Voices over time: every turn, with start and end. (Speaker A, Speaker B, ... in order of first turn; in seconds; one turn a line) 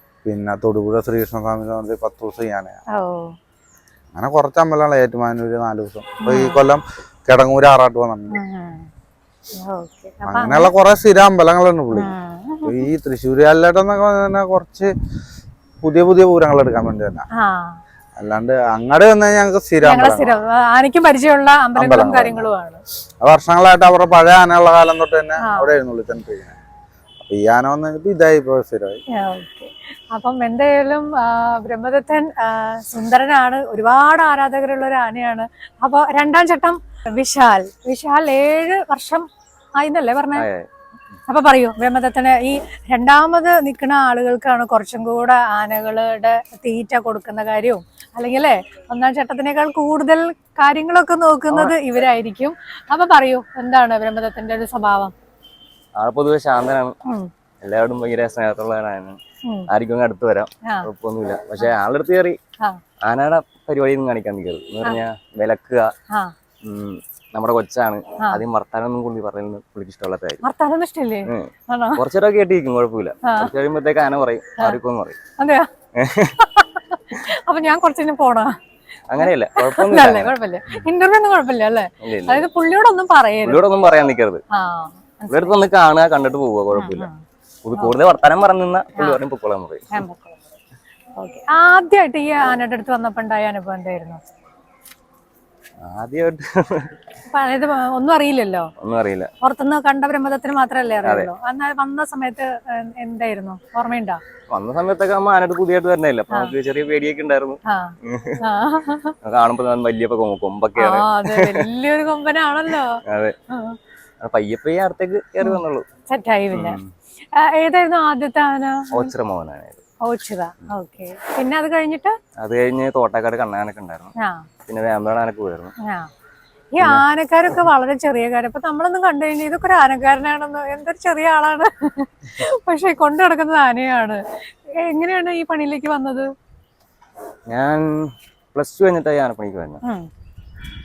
Speaker A: 0.2-2.8
Speaker B: 2.9-3.3
Speaker A: 4.1-8.4
Speaker B: 6.2-6.6
Speaker B: 8.3-8.9
Speaker B: 9.6-10.7
Speaker A: 10.2-12.1
Speaker B: 11.9-12.9
Speaker A: 12.6-14.9
Speaker A: 15.8-17.3
Speaker B: 17.4-17.8
Speaker A: 18.2-20.4
Speaker B: 19.8-22.8
Speaker A: 21.8-22.5
Speaker A: 23.2-26.5
Speaker B: 25.4-25.7
Speaker A: 27.2-29.0
Speaker B: 29.1-39.2
Speaker B: 39.8-40.5
Speaker C: 40.4-40.7
Speaker B: 41.3-55.1
Speaker C: 56.0-56.9
Speaker B: 57.0-57.3
Speaker C: 57.6-62.4
Speaker C: 63.0-65.9
Speaker C: 66.6-70.4
Speaker B: 70.4-72.0
Speaker C: 71.3-75.2
Speaker B: 73.2-73.5
Speaker B: 75.4-75.7
Speaker C: 76.0-76.4
Speaker B: 76.4-78.5
Speaker C: 79.1-80.8
Speaker B: 79.2-83.6
Speaker C: 82.0-82.5
Speaker C: 83.4-84.4
Speaker B: 84.5-85.5
Speaker C: 85.3-87.1
Speaker B: 86.7-87.2
Speaker C: 87.6-90.0
Speaker B: 89.9-90.4
Speaker B: 91.2-94.2
Speaker C: 95.8-96.9
Speaker B: 97.3-98.7
Speaker C: 98.8-99.3
Speaker B: 99.4-104.2
Speaker C: 101.0-101.3
Speaker C: 104.5-108.4
Speaker B: 107.7-109.2
Speaker C: 109.2-111.7
Speaker B: 110.8-113.8
Speaker C: 113.0-113.3
Speaker C: 114.2-115.8
Speaker B: 115.4-116.8
Speaker C: 116.5-116.9
Speaker B: 117.3-119.1
Speaker C: 118.9-119.8
Speaker B: 120.0-122.2
Speaker C: 122.4-124.1
Speaker B: 124.2-124.5
Speaker C: 124.7-125.7
Speaker B: 125.8-126.1
Speaker B: 126.7-136.3
Speaker C: 137.5-139.8